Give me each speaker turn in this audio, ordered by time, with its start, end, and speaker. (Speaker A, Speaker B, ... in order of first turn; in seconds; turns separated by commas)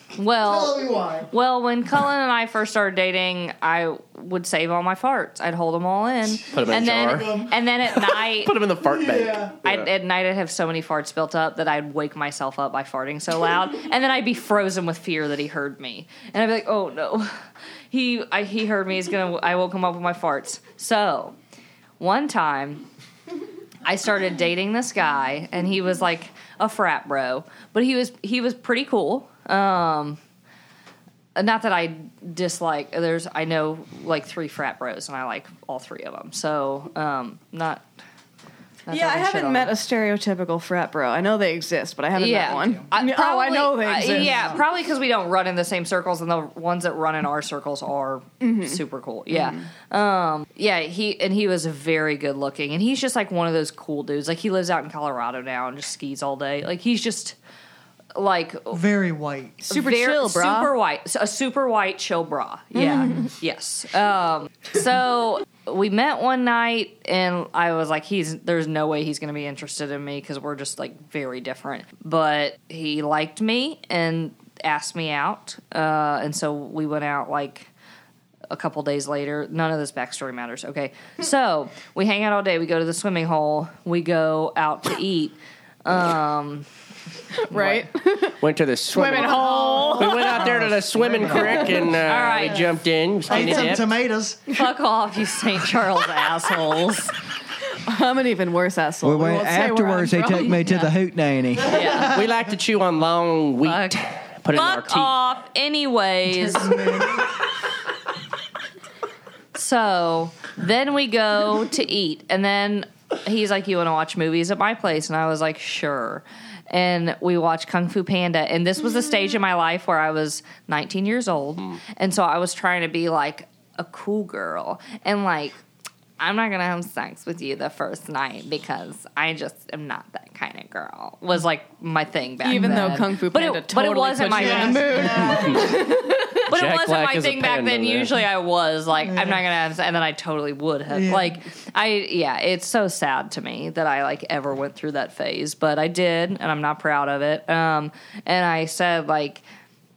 Speaker A: 0.2-8.6, Speaker B: 0.4-1.3, Speaker C: 6.5-9.9, Speaker B: 6.6-7.5, Speaker B: 8.8-9.5, Speaker A: 9.6-21.4, Speaker A: 22.0-22.8, Speaker A: 23.8-30.2, Speaker A: 31.4-37.8, Speaker A: 38.9-39.7, Speaker D: 38.9-44.6, Speaker A: 42.1-57.4, Speaker D: 48.4-49.7, Speaker A: 58.1-58.8, Speaker B: 58.7-59.6, Speaker D: 59.6-60.7, Speaker A: 59.7-77.7, Speaker D: 62.7-63.3, Speaker A: 78.5-86.7, Speaker D: 87.5-88.4, Speaker A: 87.5-87.9, Speaker C: 88.4-93.9, Speaker D: 88.9-90.6, Speaker B: 89.1-92.0, Speaker D: 91.3-91.6, Speaker A: 92.0-92.7, Speaker B: 93.3-94.4, Speaker A: 93.3-93.8, Speaker A: 94.5-97.2, Speaker D: 97.9-100.9, Speaker E: 99.0-101.9, Speaker B: 101.6-102.3, Speaker A: 101.7-102.2, Speaker C: 102.0-105.2, Speaker A: 103.6-106.9, Speaker B: 106.3-107.4, Speaker A: 109.5-125.6, Speaker A: 126.2-135.9, Speaker D: 132.4-136.4, Speaker B: 132.6-133.0, Speaker B: 134.3-135.9, Speaker C: 135.2-135.7, Speaker C: 136.5-138.2, Speaker A: 136.5-149.4, Speaker B: 139.0-139.4, Speaker B: 140.9-141.4